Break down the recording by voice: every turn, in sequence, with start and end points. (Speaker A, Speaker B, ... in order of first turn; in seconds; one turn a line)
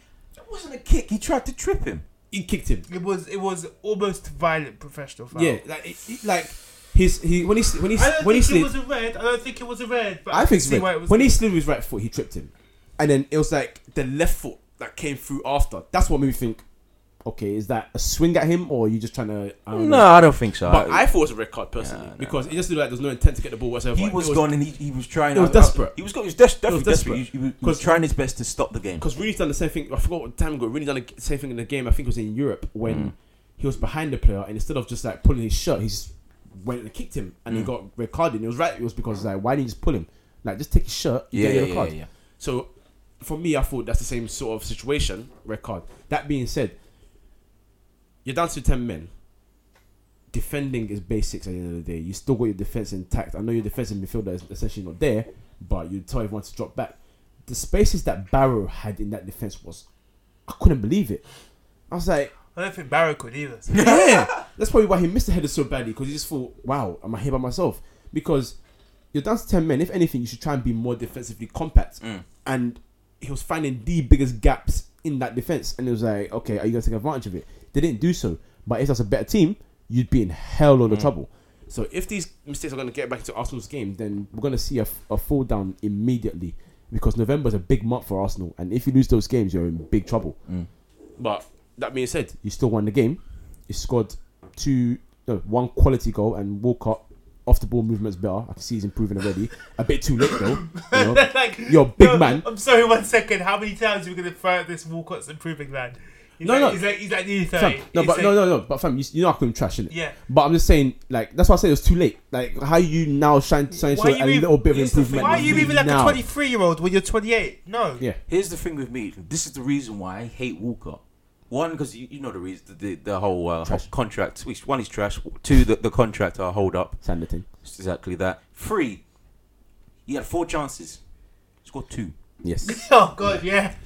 Speaker A: 0.4-2.0
Speaker B: 2.3-2.9
Speaker C: 2.9-5.6
Speaker B: 5.3-8.7
Speaker C: 7.9-11.4
Speaker B: 10.3-16.6
Speaker B: 17.2-24.5
Speaker A: 19.7-21.1
Speaker A: 21.8-22.5
Speaker A: 23.9-29.0
Speaker B: 25.3-25.9
Speaker B: 26.6-27.9
Speaker B: 29.0-46.8
Speaker A: 32.8-33.1
Speaker A: 41.3-42.1
Speaker B: 48.2-49.1
Speaker B: 50.3-59.9
Speaker B: 60.5-61.2
Speaker B: 61.9-62.3
Speaker C: 62.5-63.8
Speaker A: 63.7-64.3
Speaker B: 63.7-68.5
Speaker B: 69.1-90.4
Speaker B: 91.2-102.5
Speaker C: 100.4-108.4
Speaker B: 106.4-106.8
Speaker B: 107.5-116.2
Speaker C: 109.9-110.2
Speaker C: 113.7-118.0
Speaker A: 114.9-115.8
Speaker A: 118.3-127.0
Speaker B: 127.0-127.5
Speaker A: 127.6-129.0
Speaker A: 130.1-131.0
Speaker A: 131.6-132.1
Speaker B: 132.4-132.8
Speaker C: 132.6-133.8